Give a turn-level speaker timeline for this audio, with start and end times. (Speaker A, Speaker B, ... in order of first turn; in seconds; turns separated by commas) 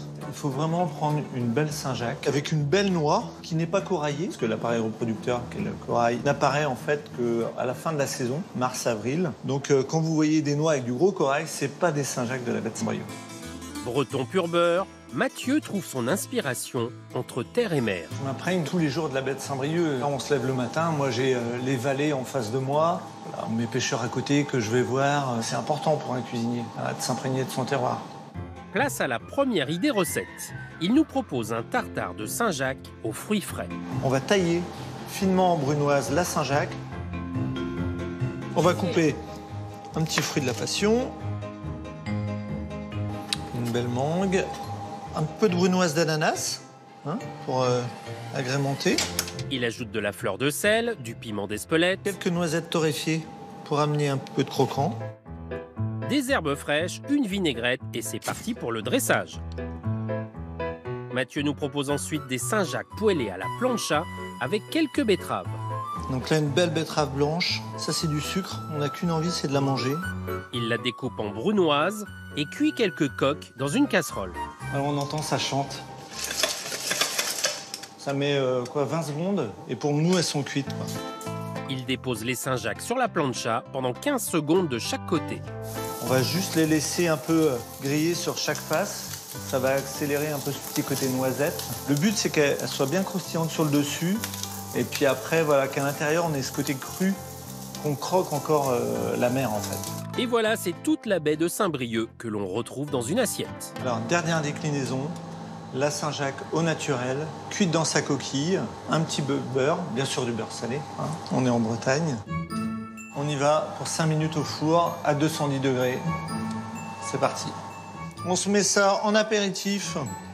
Speaker A: 0.2-13.1, Speaker B: 13.8-18.1, Speaker A: 18.2-28.1, Speaker B: 28.7-33.7, Speaker A: 34.0-36.8, Speaker A: 38.5-39.2, Speaker A: 39.9-41.2, Speaker A: 43.5-44.5, Speaker A: 45.1-49.0, Speaker B: 49.5-52.1, Speaker A: 52.0-55.0, Speaker B: 56.0-59.4, Speaker B: 61.1-65.6, Speaker A: 66.1-70.0, Speaker B: 70.5-74.4, Speaker A: 74.7-75.8, Speaker A: 78.0-80.9, Speaker B: 81.7-85.4, Speaker A: 86.0-94.2, Speaker A: 94.7-97.2, Speaker A: 97.8-99.9, Speaker B: 100.2-103.7, Speaker A: 103.8-105.2, Speaker A: 105.7-112.2, Speaker A: 113.2-116.0, Speaker A: 117.0-117.5, Speaker A: 118.2-120.0